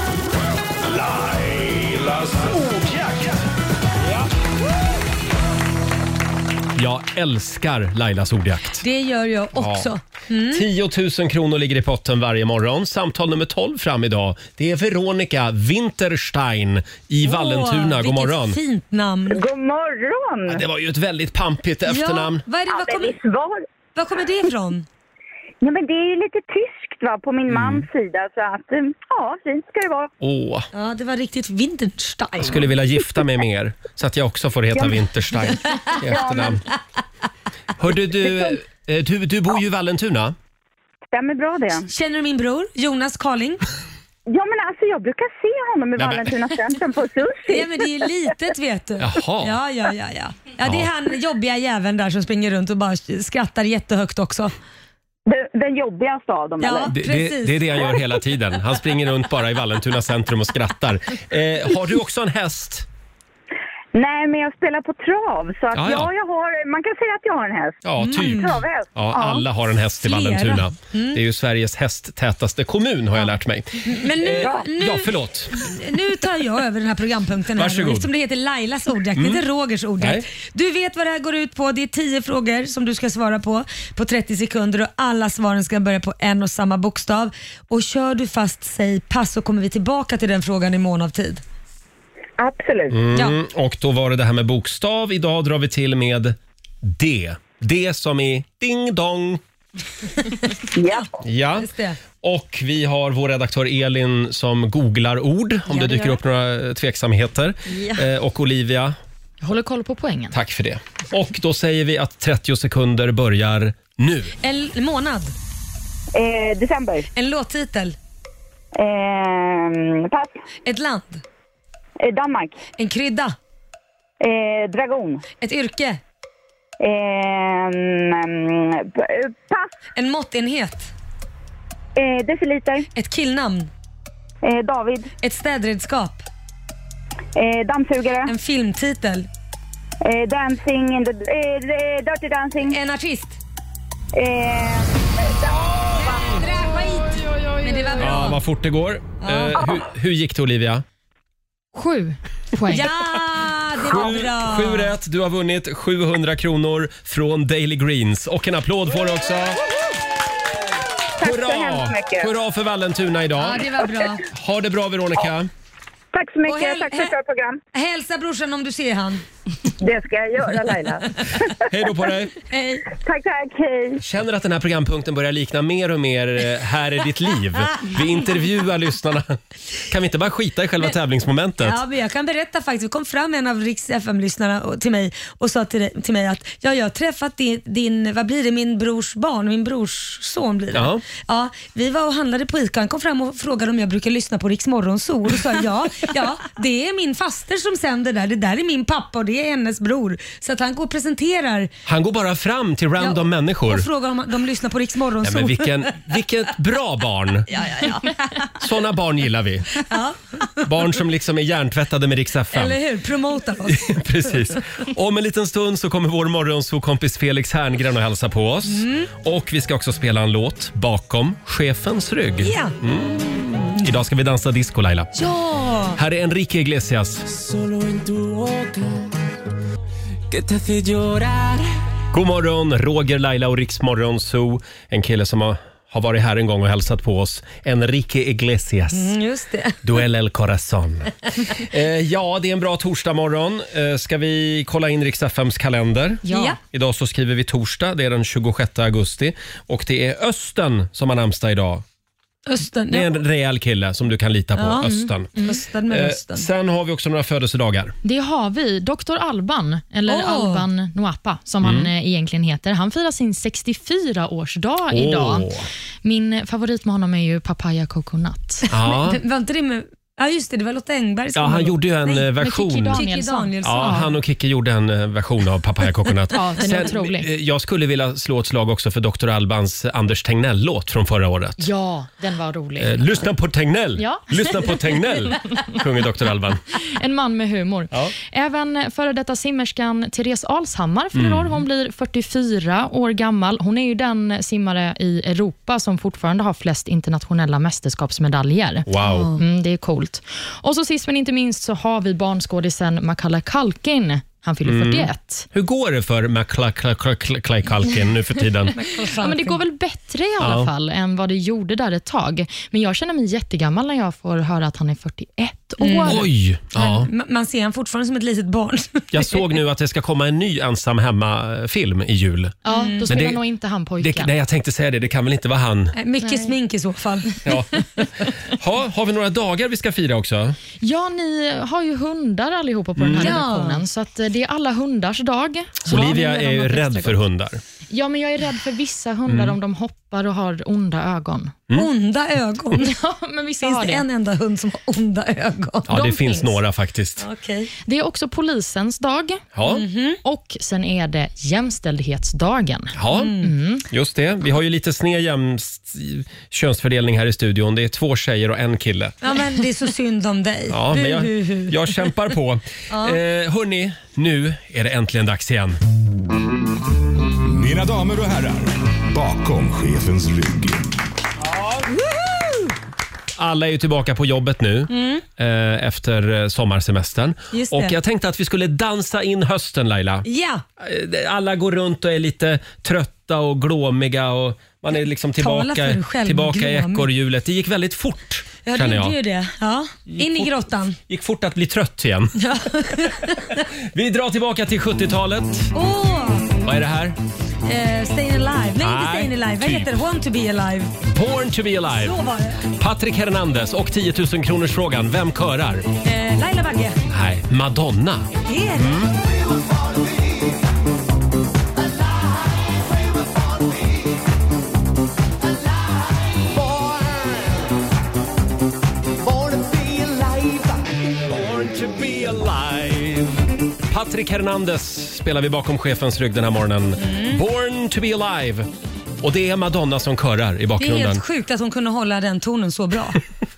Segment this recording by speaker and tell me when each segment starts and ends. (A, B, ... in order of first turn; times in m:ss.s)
0:00.8-0:03.5 A
0:06.8-0:08.8 B
0:08.8-0:10.6 C
0:09.5-0:09.9 B
0:10.5-0:18.6 B
0:17.2-0:19.4 C
0:19.3-0:20.6 D
0:20.5-0:22.4 B
0:21.9-0:23.2 C
0:22.7-0:23.6 D
0:23.9-0:24.8 C
0:25.6-0:30.1 D
0:27.5-0:27.8 B
0:30.2-0:30.7 B
0:30.7-0:32.7 C
0:32.4-0:36.6 B
0:35.5-0:35.9 C
0:36.0-0:36.6 D
0:37.8-0:40.4 B
0:41.1-0:41.9 D
0:41.9-0:43.6 C
0:44.3-0:47.9 D
0:46.0-0:46.3 B
0:47.4-0:54.5 C
0:49.0-0:49.6 B
0:50.6-0:50.9 B
0:55.3-0:56.9 D
0:56.6-0:57.8 C
0:56.9-1:02.8 B
1:03.9-1:09.4 D
1:05.7-1:06.1 B
1:07.8-1:15.7 B
1:08.0-1:08.6 C
1:10.0-1:11.2 C
1:13.8-1:31.4 C
1:17.6-1:18.1 B
1:19.2-1:19.4 B
1:20.0-1:20.2 B
1:32.4-1:33.0 D
1:32.9-1:39.4 B
1:40.8-1:41.1 D
1:41.2-1:49.0 B
1:41.6-1:42.0 C
1:45.7-1:46.2 C
1:47.7-1:48.0 C
1:49.4-1:50.4 E
1:50.3-1:54.3 B
1:54.4-1:55.3 C
1:56.1-1:57.1 D
1:57.1-1:58.0 C
1:58.7-2:00.4 D
2:00.6-2:01.2 C
2:02.0-2:02.6 D
2:02.8-2:03.3 C
2:04.2-2:05.2 D
2:05.4-2:06.0 C
2:06.8-2:09.7 D
2:09.9-2:10.9 C
2:12.0-2:12.9 D
2:12.9-2:13.7 C
2:14.4-2:15.1 D
2:15.2-2:16.2 C
2:17.3-2:18.3 D
2:18.2-2:19.3 C
2:20.0-2:22.8 D
2:22.7-2:23.4 C
2:24.1-2:26.4 D
2:25.9-2:28.4 C
2:28.0-2:30.8 B
2:29.2-2:29.7 C
2:31.7-2:32.9 E
2:32.7-2:34.9 C
2:33.8-2:39.6 B
2:41.2-2:42.3 D
2:41.2-2:43.7 B
2:43.4-2:44.2 C
2:44.2-2:45.5 B
2:46.1-2:47.6 D
2:46.4-2:47.1 C
2:47.7-2:49.2 C
2:49.8-2:51.6 D
2:51.7-2:52.4 B
2:52.5-2:52.8 C
2:52.9-2:54.0 D
2:54.0-2:59.4 B
2:59.9-3:01.8 B
3:01.6-3:21.7 C
3:10.7-3:11.0 B
3:21.8-3:23.9 B
3:23.0-3:25.8 C
3:25.2-3:27.5 B
3:27.5-3:28.5 C
3:28.6-3:29.9 B
3:29.8-3:30.4 C
3:30.6-3:32.8 B
3:32.5-3:33.8 C
3:33.6-3:45.1 B
3:38.7-3:39.1 C
3:42.4-3:42.8 C
3:45.1-3:46.0 C
3:45.9-3:47.2 B
3:47.3-3:49.1 F
3:50.3-3:51.6 F
3:52.1-3:59.1 B
3:58.9-3:59.8 C
3:59.8-4:11.8 B
4:06.2-4:06.6 E
4:06.3-4:06.6 C
4:12.4-4:13.1 C
4:12.9-4:18.0 B
4:14.6-4:16.5 C
4:15.0-4:15.6 E
4:18.0-4:25.5 E
4:20.1-4:20.6 C
4:21.6-4:21.9 B
4:24.9-4:25.7 B
4:26.0-4:28.7 E
4:28.7-4:29.2 B
4:28.7-4:32.2 C
4:31.3-4:33.0 B
4:32.4-4:34.1 E
4:32.9-4:34.1 C
4:33.6-4:41.7 B
4:36.3-4:37.3 E
4:41.6-4:43.0 E
4:42.8-4:46.6 B
4:44.0-4:44.7 E
4:46.8-5:05.5 E
4:51.2-4:51.6 B
4:58.8-4:59.3 B
4:59.0-4:59.4 C
5:04.6-5:08.8 B
5:08.7-5:09.6 C
5:09.2-5:16.3 E
5:10.4-5:10.7 B
5:15.8-5:19.5 C
5:16.0-5:17.1 B
5:19.1-5:22.6 B
5:22.6-5:24.3 E
5:22.6-5:23.1 C
5:23.1-5:23.4 B
5:24.0-5:26.0 B
5:25.9-5:27.4 C
5:26.2-5:26.5 E
5:27.4-5:30.6 B
5:30.8-5:37.2 E
5:33.0-5:33.4 B
5:33.1-5:33.8 C
5:35.8-5:37.6 B
5:37.9-5:41.6 E
5:39.3-5:39.6 B
5:41.7-5:42.9 C
5:42.8-5:44.0 E
5:43.6-5:46.5 C
5:45.9-5:47.2 B
5:47.2-5:47.7 C
5:47.8-5:49.4 E
5:49.6-5:49.8 B
5:49.6-5:50.2 C
5:50.2-5:53.8 E
5:53.0-5:53.4 B
5:53.1-5:53.5 C
5:53.9-5:59.3 B
5:59.2-6:01.8 C
6:00.7-6:05.8 B
6:02.9-6:03.2 C
6:07.4-6:11.0 A
6:11.5-6:11.8 B
6:13.4-6:20.2 B
6:14.9-6:15.2 C
6:17.5-6:18.0 C
6:20.2-6:20.6 C
6:20.8-6:29.2 B
6:25.4-6:27.1 C
6:28.6-6:31.0 C
6:30.1-6:30.5 B
6:31.1-6:32.4 B
6:32.4-6:33.6 C
6:33.6-6:35.7 B
6:35.7-6:36.6 C
6:36.6-6:37.2 B
6:37.6-6:41.0 C
6:38.8-6:40.0 B
6:41.1-6:42.2 B
6:41.9-6:42.7 C
6:42.7-6:45.9 B
6:46.0-6:47.0 C
6:47.1-6:49.2 B
6:48.4-6:49.0 C
6:59.7-7:00.0 A
7:01.3-7:08.7 B
7:07.0-7:07.4 C
7:09.2-7:11.2 B
7:10.8-7:13.2 C